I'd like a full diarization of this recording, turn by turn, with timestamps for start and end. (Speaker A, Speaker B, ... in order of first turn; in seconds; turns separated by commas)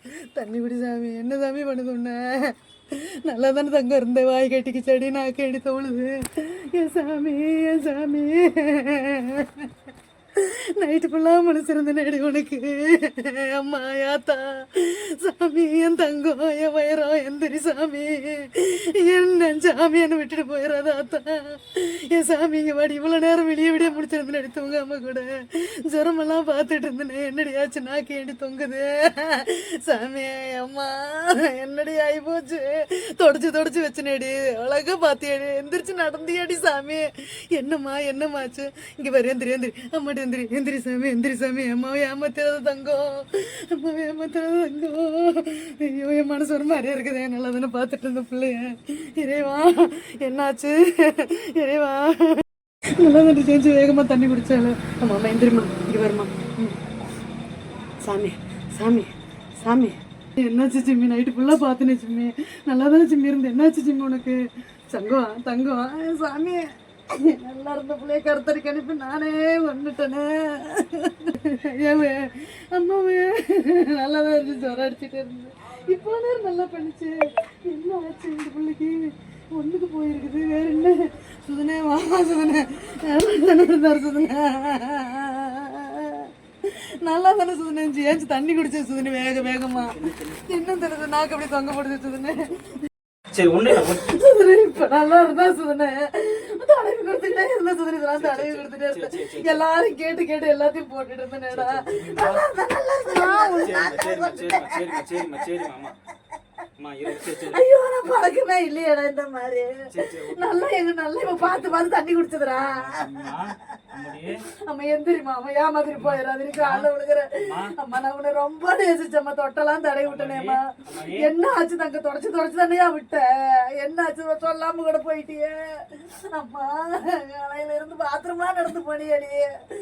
Speaker A: 0.3-9.7, Speaker A: 10.4-52.4, Speaker A: 53.0-56.8, Speaker A: 58.0-64.4, Speaker A: 64.9-86.3, Speaker A: 87.0-92.8, Speaker B: 89.0-90.6, Speaker B: 92.4-92.7, Speaker B: 93.3-94.1, Speaker A: 93.7-105.1, Speaker B: 98.1-99.7, Speaker B: 101.5-102.5, Speaker B: 103.2-105.9, Speaker B: 106.8-107.6, Speaker A: 107.1-114.0, Speaker B: 109.9-111.8, Speaker B: 112.5-114.4, Speaker A: 114.7-129.5, Speaker B: 115.9-117.7, Speaker B: 120.0-121.3